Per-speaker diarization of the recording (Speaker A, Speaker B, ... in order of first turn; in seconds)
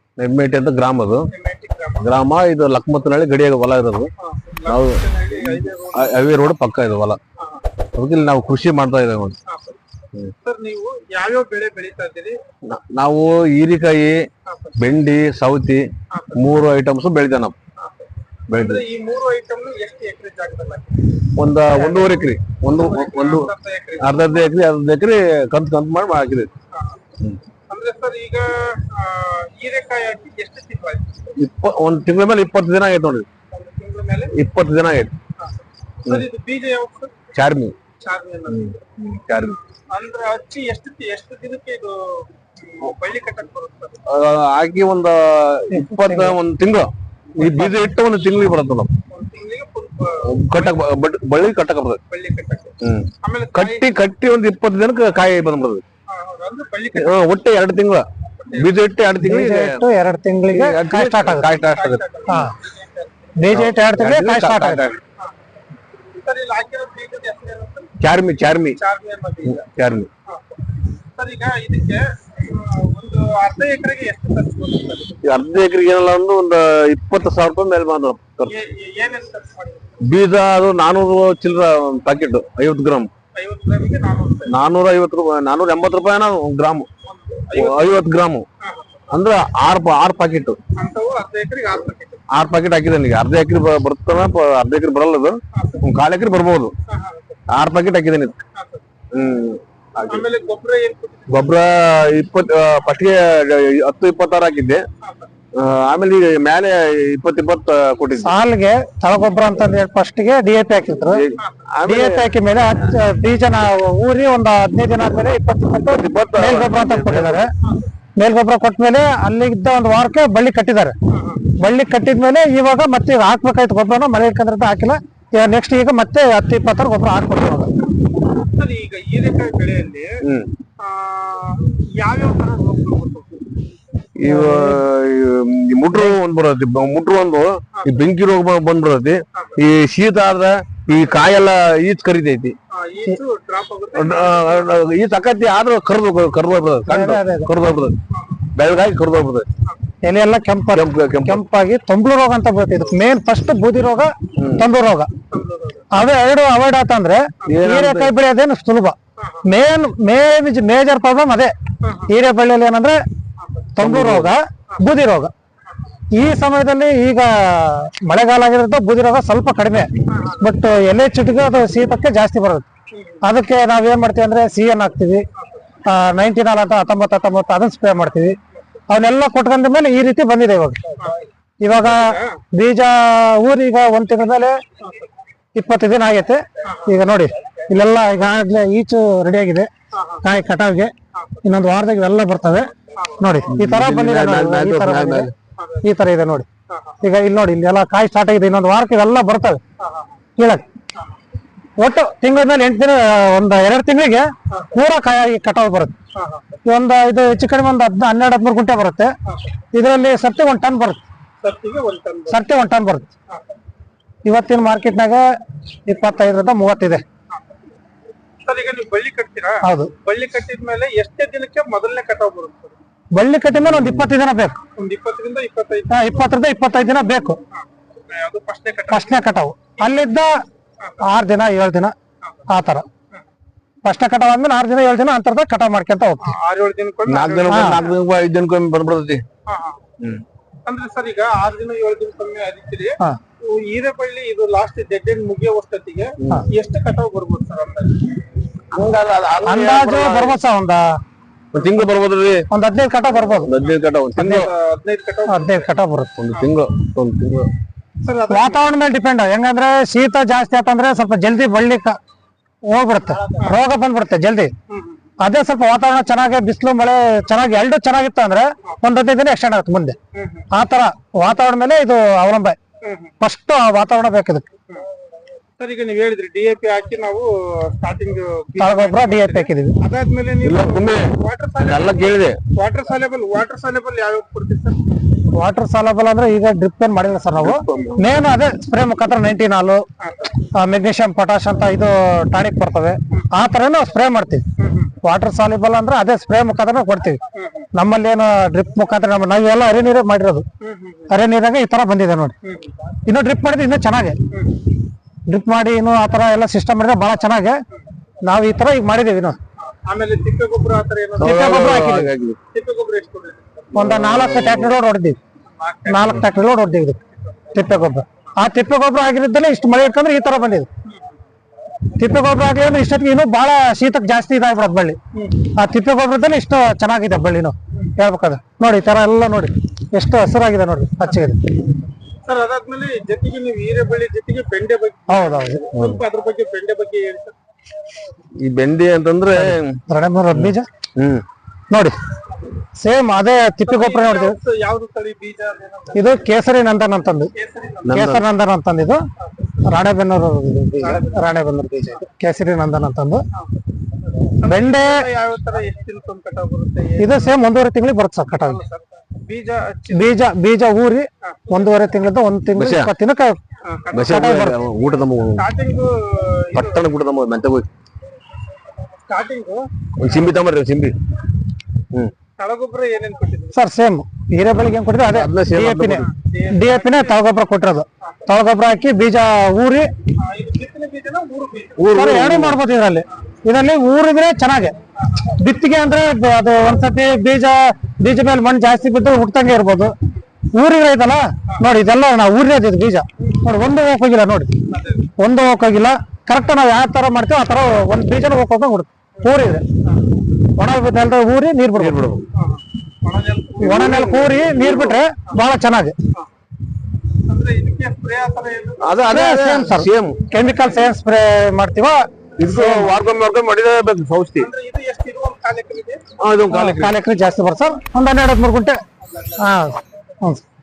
Speaker A: 0.2-1.3, 2.0-4.1, 4.7-7.2, 8.0-9.4, 12.7-14.2, 14.8-15.8, 16.4-17.6, 18.5-18.8, 21.4-26.5, 31.4-33.3, 34.3-35.2, 37.3-37.7, 38.5-39.6, 44.1-48.9, 50.3-52.0, 52.8-55.8, 57.0-58.0, 58.6-59.8, 60.5-62.4, 63.5-65.0, 68.0-68.8, 69.5-70.1, 75.2-78.5, 80.1-83.1, 84.5-86.9, 87.5-88.5, 89.1-90.6, 92.3-96.7, 97.5-98.4, 99.1-100.3, 101.3-104.8, 105.5-108.3, 111.1-112.4, 115.8-117.5, 134.2-142.6, 143.9-148.0, 148.6-149.5, 150.7-151.4, 154.4-154.7, 157.5-158.1, 163.8-164.3, 193.5-195.3, 223.6-224.1, 237.1-239.2, 248.7-250.4, 251.5-252.5, 253.2-254.5, 256.2-257.5, 280.4-282.4, 287.4-288.1, 311.2-312.4, 313.8-314.8, 335.7-336.0, 338.4-339.8, 340.3-341.2, 347.9-348.2, 362.5-362.9, 363.9-365.4, 366.5-367.7, 370.0-370.9, 375.1-376.1, 381.8-382.6, 401.8-402.2, 403.6-405.0, 408.8-410.3, 412.4-414.5, 416.2-416.9
Speaker B: 1.3-2.2, 4.2-6.2, 7.4-7.6, 9.5-9.8, 10.4-12.4, 14.4-14.8, 16.1-16.5, 17.8-24.5, 26.7-27.0, 27.7-31.3, 33.6-34.3, 35.4-37.2, 38.0-38.9, 39.9-44.0, 49.1-50.8, 52.1-53.9, 56.1-57.2, 58.3-58.9, 61.6-63.5, 66.2-68.0, 68.7-69.7, 70.3-75.2, 78.5-80.0, 83.3-84.6, 87.0-88.0, 88.6-89.1, 90.8-92.3, 95.5-95.8, 96.9-97.4, 98.5-98.8, 100.1-101.6, 105.0-105.3, 111.4-111.6, 121.1-121.6, 128.3-130.2, 130.8-133.6, 137.7-138.0, 139.3-139.6, 142.7-144.8, 148.1-148.4, 155.3-155.9, 159.2-159.5, 161.8-162.1, 163.4-163.7, 165.7-166.0, 170.1-170.6, 172.9-173.2, 175.4-175.8, 181.0-181.2, 181.9-182.4, 184.8-185.1, 186.6-187.0, 189.9-190.3, 191.1-191.5, 192.9-193.5, 195.6-195.9, 196.7-197.0, 199.8-200.2, 204.5-204.8, 206.1-206.5, 209.3-209.6, 211.4-212.4, 213.3-213.6, 217.3-217.6, 218.4-222.8, 224.8-226.1, 227.5-229.3, 230.8-231.1, 232.2-232.5, 236.2-237.9, 239.5-239.8, 240.7-248.2, 254.2-255.7, 258.0-258.7, 263.3-263.6, 264.7-265.0, 270.1-270.5, 272.8-273.1, 275.6-285.0, 290.0-290.4, 294.6-294.9, 297.3-297.7, 300.6-301.2, 302.4-302.8, 304.3-304.6, 309.6-312.0, 312.5-313.8, 315.5-316.3, 317.1-317.6, 320.9-321.2, 325.1-325.5, 332.2-337.4, 343.6-346.2, 347.4-348.1, 349.2-349.6, 350.8-351.2, 353.3-357.4, 358.4-360.1, 361.2-361.6, 363.7-364.5, 365.4-366.9, 369.1-369.7, 372.4-373.6, 376.0-377.2, 378.0-378.3, 380.2-382.0, 385.1-385.3, 393.2-393.4, 394.7-395.1, 399.8-400.1, 402.3-404.0, 407.3-409.0, 414.4-416.1, 419.1-419.4
Speaker C: 45.7-46.4, 47.4-47.7, 59.2-61.5, 63.4-64.9, 108.2-111.2, 111.8-117.5, 118.2-120.9, 121.6-127.7, 134.3-134.8, 146.9-147.5, 150.0-155.1, 155.9-161.5, 162.1-163.0, 163.8-165.3, 166.1-172.7, 173.2-175.2, 175.8-178.4, 178.9-180.9, 181.6-184.6, 185.6-189.7, 190.2-190.9, 191.4-195.3, 195.8-196.5, 197.0-199.6, 200.4-200.6, 201.8-205.9, 206.7-209.1, 209.7-211.0, 212.3-213.1, 214.2-215.2, 215.9-217.0, 219.6-219.9, 223.1-224.6, 225.9-227.4, 228.9-230.3, 231.0-231.9, 232.5-232.9, 233.8-236.3, 237.5-237.8, 249.4-250.8, 252.5-253.5, 255.3-256.1, 258.3-261.9, 262.7-264.5, 265.2-270.0, 270.5-272.6, 273.2-274.5, 278.6-279.8, 285.3-289.8, 290.6-294.4, 295.0-297.2, 297.7-300.4, 301.1-302.4, 303.1-304.2, 305.3-307.6, 308.2-309.4, 311.2-312.1, 313.8-315.2, 315.9-317.0, 317.5-320.7, 321.9-325.0, 325.5-331.5, 335.1-335.7, 339.4-340.7, 342.8-344.4, 345.9-347.3, 347.9-349.0, 349.7-353.2, 354.5-355.1, 357.0-358.6, 359.9-363.4, 364.1-364.6, 373.5-379.9, 381.9-384.8, 385.3-389.9, 390.5-394.5, 395.2-399.6, 400.6-402.0, 403.6-405.9, 409.1-413.0, 416.5-418.8, 419.4-420.4